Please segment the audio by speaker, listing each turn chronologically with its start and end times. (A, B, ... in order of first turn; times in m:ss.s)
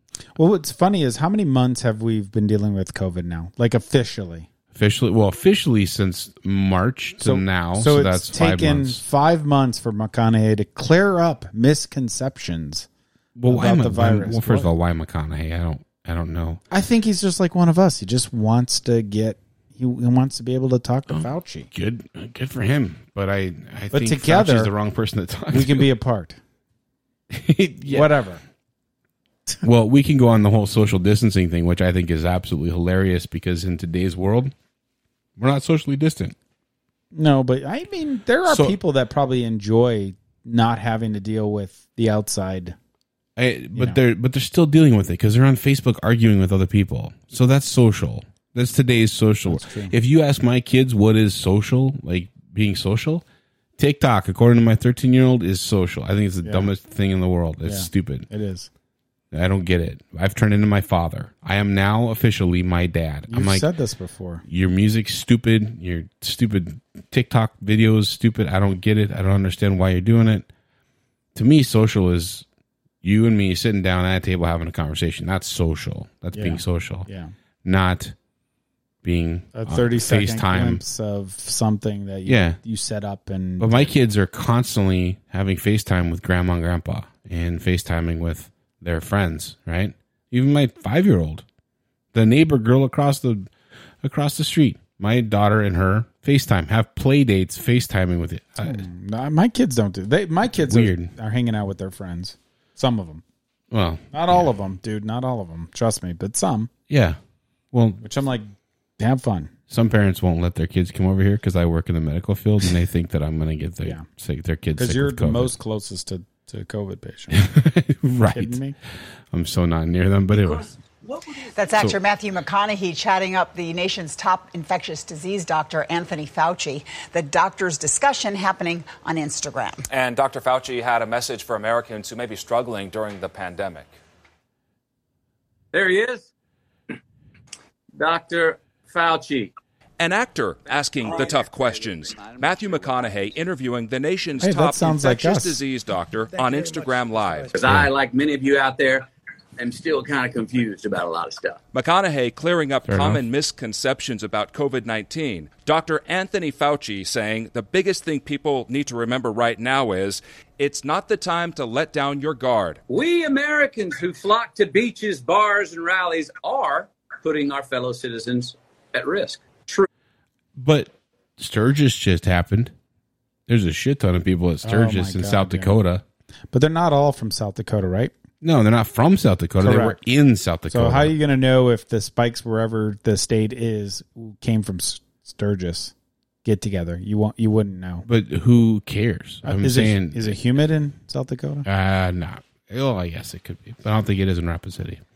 0:00.4-0:04.5 A
0:04.7-0:09.0 B
0:07.2-0:12.9 A
0:13.4-0:16.6 B
0:13.5-0:14.7 A
0:16.7-0:21.7 A
0:21.1-0:25.9 B
0:23.9-0:24.7 A
0:25.5-0:26.4 A
0:27.3-0:28.2 B
0:27.9-0:28.4 A
0:29.6-0:34.5 B
0:35.4-0:36.4 B
0:37.1-0:42.8 A
0:38.4-0:38.8 B
0:43.4-0:53.2 B
0:49.5-0:49.9 A
0:53.8-0:58.3 B
0:56.4-0:56.7 A
0:57.6-0:58.7 A
0:59.3-1:03.7 B
1:03.3-1:04.4 A
1:04.5-1:10.5 B
1:11.4-1:12.5 B
1:13.0-1:17.1 B
1:16.3-1:17.3 A
1:17.6-1:18.2 B
1:19.0-1:20.8 B
1:19.6-1:23.9 A
1:22.3-1:22.6 B
1:23.6-1:31.4 B
1:32.1-1:33.5 B
1:34.0-1:38.9 B
1:38.6-1:43.2 A
1:40.5-1:41.1 B
1:43.7-1:44.5 B
1:44.1-1:46.7 A
1:46.9-1:47.2 B
1:47.7-1:48.0 B
1:48.0-1:49.5 A
1:49.7-1:55.6 B
1:54.8-1:57.4 A
1:57.3-1:58.6 B
1:58.3-1:58.8 A
1:59.3-2:00.7 B
2:00.3-2:02.0 C
2:01.6-2:09.8 D
2:09.9-2:14.0 E
2:15.7-2:16.3 F
2:18.0-2:19.5 F
2:20.0-2:27.6 E
2:21.0-2:21.5 C
2:24.4-2:25.6 A
2:26.4-2:27.7 C
2:27.5-2:31.6 F
2:27.6-2:27.9 B
2:31.7-2:42.8 E
2:32.8-2:33.2 B
2:42.9-2:49.9 F
2:50.6-2:52.7 B
2:53.5-2:56.0 B
2:54.6-2:55.7 A
2:56.5-2:58.1 A
2:58.4-3:01.1 B
2:59.6-3:00.0 A
3:00.7-3:05.9 A
3:06.4-3:08.1 A
3:08.0-3:10.4 B
3:09.4-3:11.7 A
3:11.6-3:15.0 B